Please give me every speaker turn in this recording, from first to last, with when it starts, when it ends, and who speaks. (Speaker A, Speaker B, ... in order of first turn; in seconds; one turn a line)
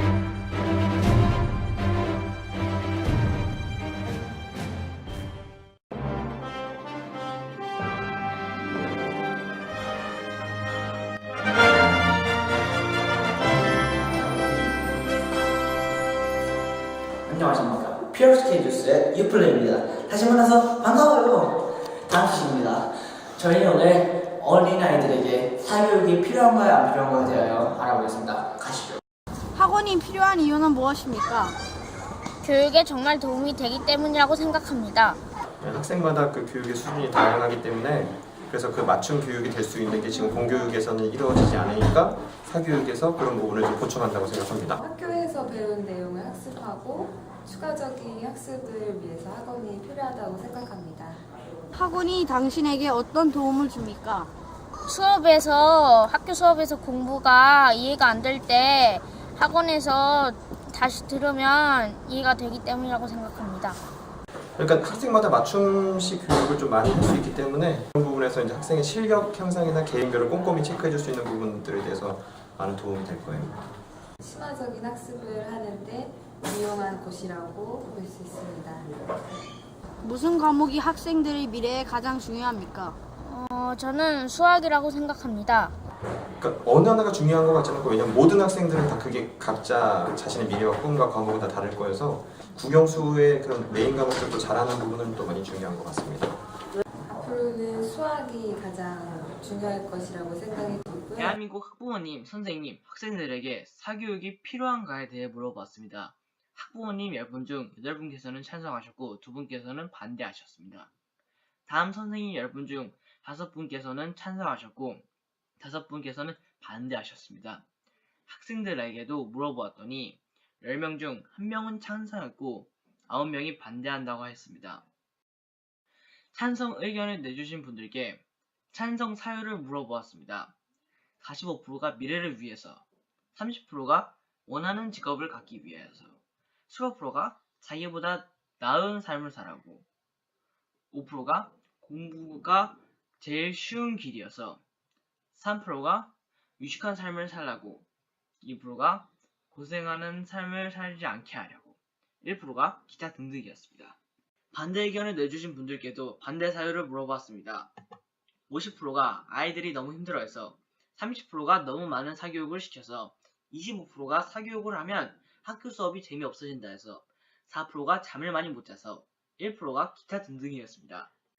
Speaker A: 17.3-21.6
Speaker A: 22.1-29.0
Speaker B: 29.5-31.6
Speaker C: 32.4-35.2
Speaker D: 35.6-44.8
Speaker E: 44.8-51.2
Speaker B: 51.7-54.3
Speaker C: 54.9-63.8
Speaker D: 64.6-73.5
Speaker E: 74.2-79.0
Speaker B: 80.0-83.0
Speaker C: 83.2-85.7
Speaker D: 86.4-96.4
Speaker E: 97.1-101.3
Speaker F: 101.2-110.9
Speaker F: 111.7-115.0
Speaker F: 115.6-117.6
Speaker F: 118.3-124.8
Speaker F: 126.3-130.5
Speaker F: 131.2-132.8
Speaker F: 133.3-136.2
Speaker F: 136.7-139.8
Speaker F: 140.9-144.6
Speaker F: 145.3-147.8
Speaker F: 148.4-153.9
Speaker F: 154.5-157.7
Speaker F: 158.5-171.1